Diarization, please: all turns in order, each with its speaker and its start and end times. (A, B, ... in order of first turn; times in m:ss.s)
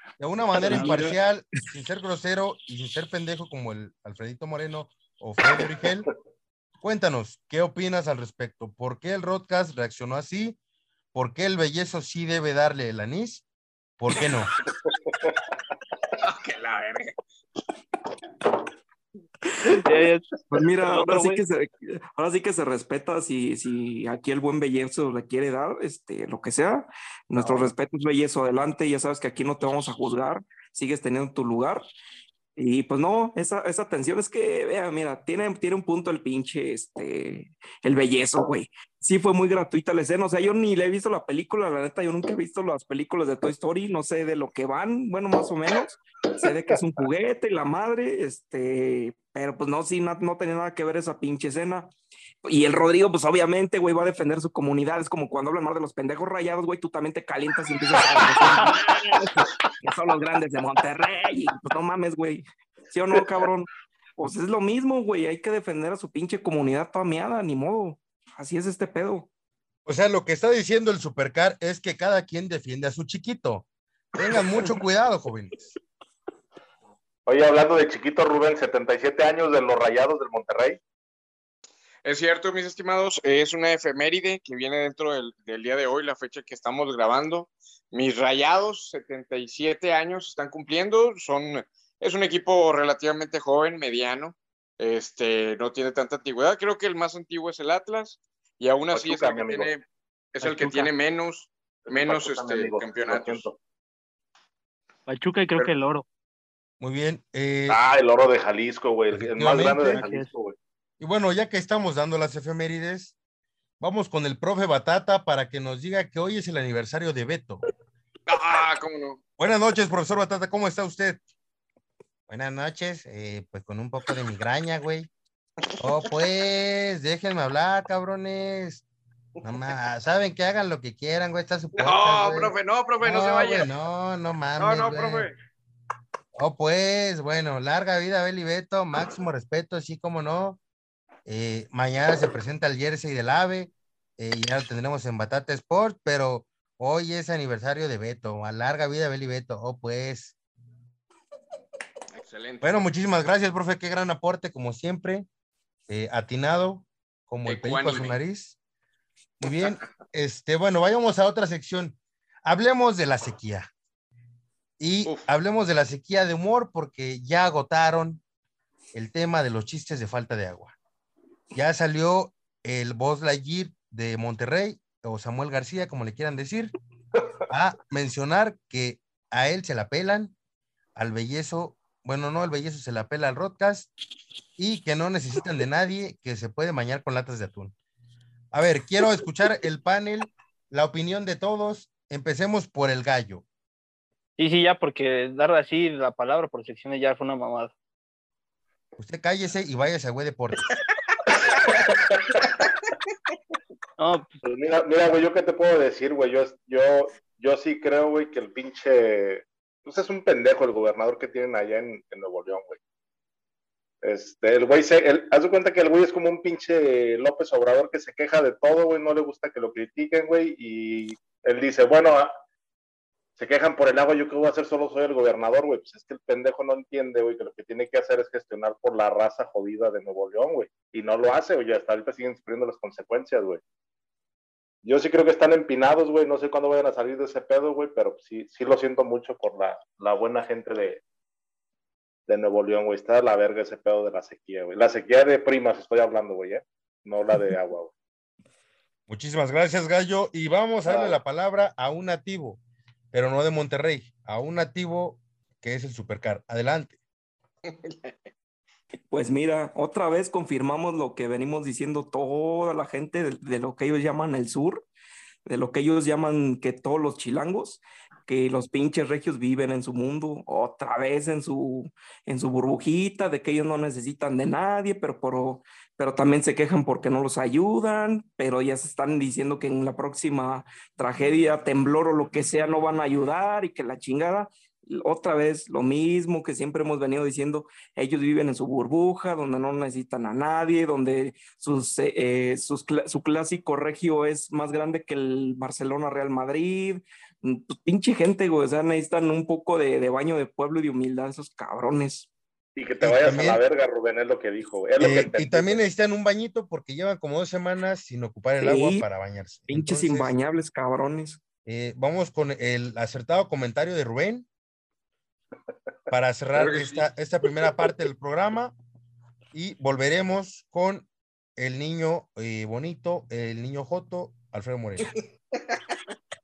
0:00.2-0:06.1 A
0:00.7-0:01.0 B
0:00.7-0:01.1 C
0:06.8-0:10.6 A
0:11.1-0:13.4 A
0:14.0-0:14.5 A
0:16.2-0:17.1 D
0:19.8-0:20.3 C
0:20.5-0:31.8 B
0:20.8-0:21.4 C
0:32.6-0:51.9 B
0:52.4-1:09.3 B
0:58.4-0:59.2 E
1:09.9-1:13.7 A
1:14.2-1:15.8 A
1:17.3-1:20.8 E
1:22.0-1:43.5 D
1:38.9-1:39.7 E
1:40.4-1:40.9 C
1:41.9-1:43.6 E
1:45.1-1:46.0 C
1:46.8-1:47.8 A
1:47.7-1:50.6 E
1:49.1-1:50.0 A
1:49.6-1:50.3 C
1:51.0-1:53.2 A
1:53.8-1:57.6 A
1:58.3-1:59.2 D
1:59.4-2:01.2 A
2:02.3-2:05.1 A
2:05.7-2:06.2 D
2:05.8-2:08.8 A
2:09.4-2:15.3 A
2:11.8-2:13.7 D
2:14.6-2:15.4 D
2:16.4-2:20.6 A
2:21.3-2:30.4 A
2:32.1-2:32.9 D
2:32.6-2:35.3 A
2:35.9-2:38.6 A
2:37.5-2:38.2 D
2:39.4-2:43.7 A
2:44.8-2:48.2 A
2:48.9-2:50.8 A
2:51.5-2:56.7 A
2:57.5-3:00.3 A
3:01.0-3:03.9 A
3:04.6-3:07.7 A
3:08.5-3:13.4 A
3:14.4-3:17.7 C
3:19.0-3:20.7 A
3:21.5-3:22.4 E
3:24.0-3:24.3 C
3:24.4-3:32.8 E
3:34.0-3:42.3 E
3:43.4-3:53.6 E
3:54.8-4:01.0 E
4:02.3-4:07.9 E
4:09.1-4:12.6 A
4:10.9-4:11.2 E
4:13.1-4:17.0 A
4:17.6-4:18.1 D
4:19.1-4:24.9 B
4:25.5-5:02.3 B
5:02.8-5:05.8 E
5:03.0-5:03.6 A
5:05.0-5:10.4 A
5:08.6-5:09.1 B
5:09.7-5:11.4 B
5:11.6-5:14.5 A
5:16.1-5:18.8 A
5:16.6-5:17.0 D
5:19.5-5:25.1 A